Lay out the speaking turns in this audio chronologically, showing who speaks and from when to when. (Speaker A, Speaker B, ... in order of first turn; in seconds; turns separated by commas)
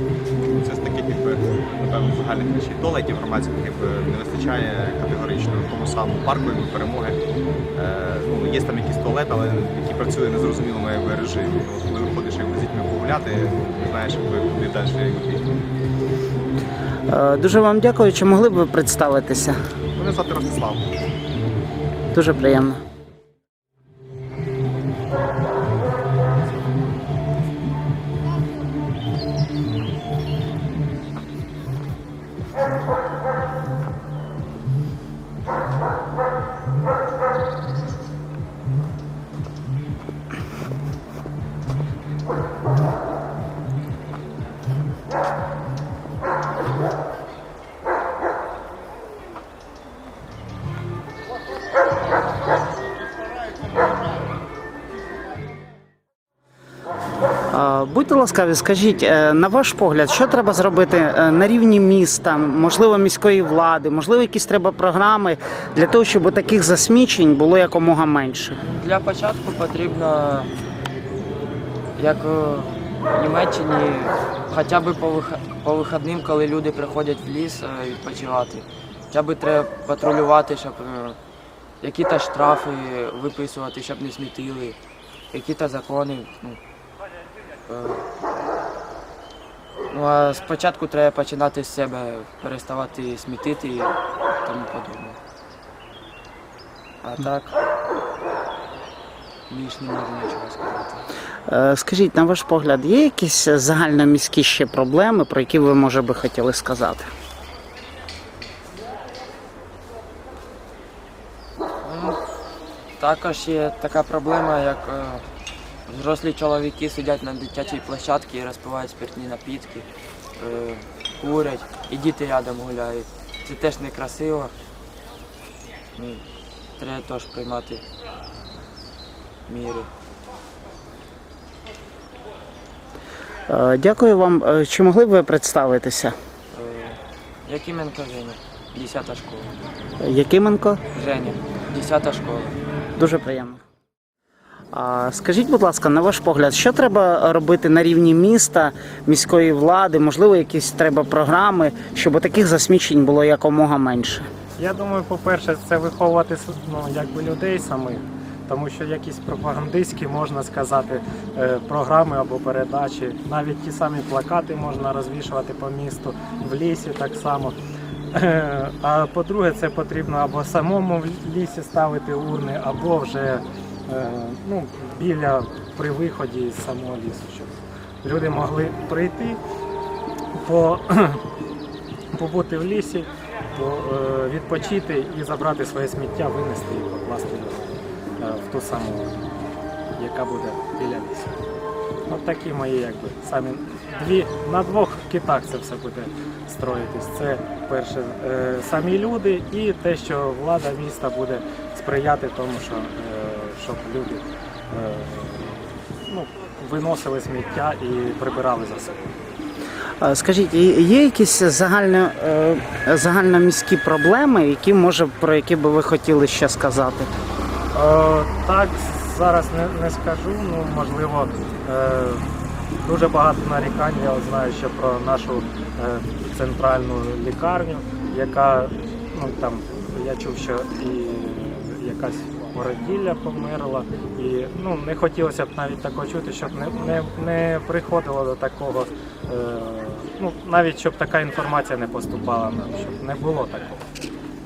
Speaker A: 0.4-7.2, Speaker A: 7.7-15.4, Speaker B: 17.1-19.6, Speaker A: 19.9-20.9, Speaker B: 22.1-22.8, Speaker B: 57.5-68.6, Speaker C: 68.7-70.5, Speaker C: 72.0-81.2, Speaker C: 81.8-84.8, Speaker C: 85.3-86.6, Speaker C: 87.7-88.0, Speaker C: 89.9-95.2, Speaker C: 97.0-97.5, Speaker C: 99.5-101.0, Speaker B: 101.5-107.1, Speaker C: 111.8-112.2, Speaker C: 113.0-115.2, Speaker C: 115.9-119.8, Speaker C: 120.4-124.5, Speaker C: 126.0-126.2, Speaker C: 126.8-127.8, Speaker C: 129.5-129.9, Speaker B: 133.5-136.1, Speaker C: 136.5-139.6, Speaker B: 140.0-140.8, Speaker C: 140.9-142.6, Speaker B: 143.0-143.6, Speaker B: 144.7-154.3, Speaker D: 154.6-167.6, Speaker D: 168.1-179.4, Speaker D: 180.3-181.2, Speaker D: 182.1-189.3, Speaker D: 190.0-191.3, Speaker D: 192.1-209.1, Speaker B: 210.0-217.1, Speaker D: 217.7-222.2, Speaker D: 222.8-243.8